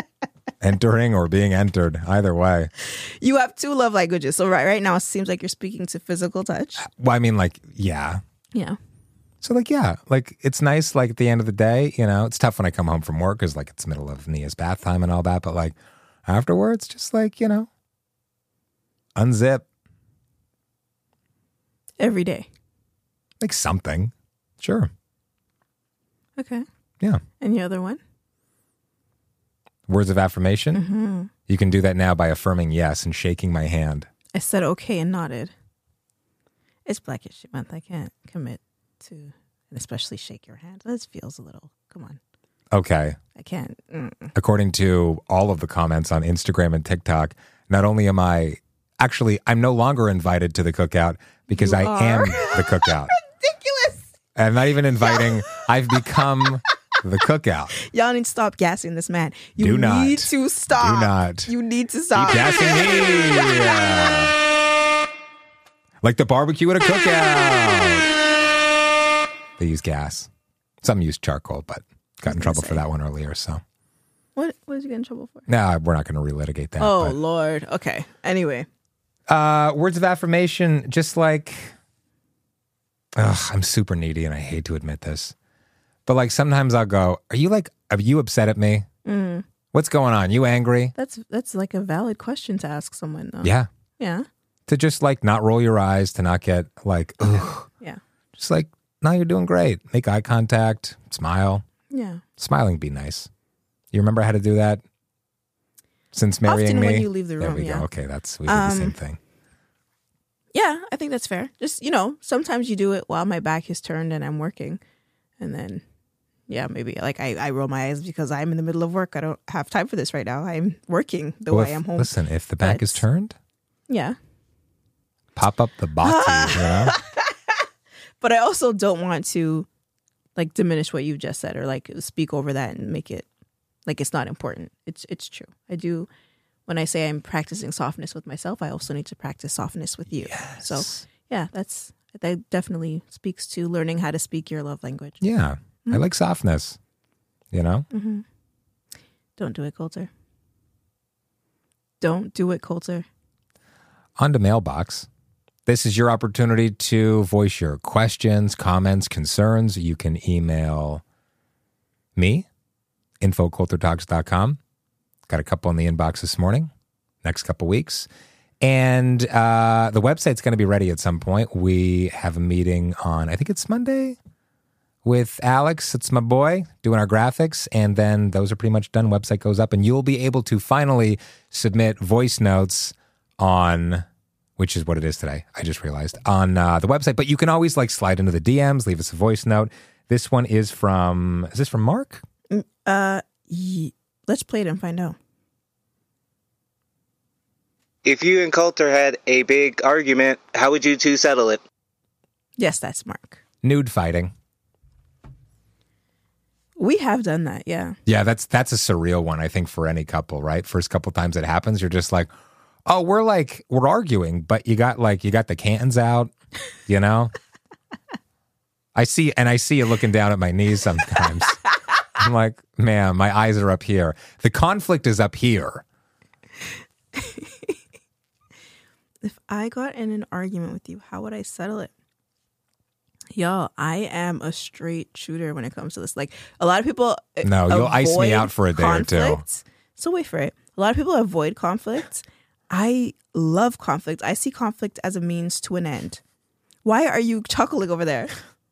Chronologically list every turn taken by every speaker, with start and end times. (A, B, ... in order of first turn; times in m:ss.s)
0:00.6-0:02.7 A
0:02.8-0:06.8 B
0:06.8-0:08.2 A
0:09.4-0:17.7 A
0:19.1-0:19.6 A
0:22.0-0:22.5 B
0:23.4-0:24.9 A
0:26.4-0:26.6 B
0:27.4-0:28.0 B
0:29.9-0:30.8 A
0:30.7-0:31.3 B
0:31.5-0:34.1 A
0:34.3-0:35.5 B
0:36.8-0:42.2 B
0:42.7-0:43.2 A
0:43.4-0:44.3 B
0:44.3-0:53.1 A
0:51.5-0:54.0 B
0:54.4-0:57.7 A
0:55.0-0:56.0 B
0:57.8-1:03.9 B
0:59.6-1:01.5 A
1:02.1-1:04.3 A
1:06.0-1:08.1 A
1:09.6-1:10.3 A
1:10.8-1:13.6 A
1:12.3-1:12.8 B
1:14.4-1:15.5 B
1:15.5-1:17.2 A
1:16.8-1:18.7 B
1:19.3-1:21.7 A
1:23.1-1:25.3 A
1:26.0-1:28.8 A
1:29.0-1:29.4 B
1:29.7-1:30.9 A
1:30.9-1:34.2 B
1:33.4-1:33.7 A
1:34.7-1:37.7 A
1:38.3-1:41.6 A
1:41.9-1:42.2 B
1:42.4-1:43.3 A
1:43.9-1:44.8 A
1:46.1-1:49.2 A
1:46.4-1:47.8 B
1:48.4-1:49.0 B
1:50.5-1:54.8 B
1:55.4-1:55.8 B
1:56.5-2:03.0 B
2:01.5-2:03.4 A
2:03.9-2:04.2 B
2:05.4-2:07.0 A
2:06.0-2:07.6 B
2:08.2-2:09.7 B
2:10.4-2:13.2 B
2:13.8-2:16.1 B
2:16.7-2:25.2 B
2:20.2-2:21.0 A
2:25.2-2:26.8 A
2:27.5-2:27.8 A
2:27.9-2:28.2 B
2:29.4-2:30.1 B
2:32.0-2:33.0 B
2:34.2-2:35.1 A
2:35.6-2:41.0 A
2:42.2-2:42.5 A
2:43.2-2:44.6 A
2:45.3-2:46.7 A
2:47.2-2:48.1 A
2:48.6-2:54.2 A
2:55.0-3:04.0 A
3:04.6-3:12.2 A
3:12.5-3:15.2 B
3:18.0-3:21.6 C
3:22.6-3:23.4 B
3:23.6-3:24.3 A
3:26.8-3:28.0 B
3:28.0-3:32.3 A
3:32.8-3:36.3 A
3:36.8-3:37.3 A
3:38.9-3:41.6 A
3:42.2-3:45.8 A
3:47.2-3:47.7 B
3:49.2-3:51.9 B
3:53.3-4:06.2 B
3:57.4-3:59.4 A
4:06.8-4:08.3 B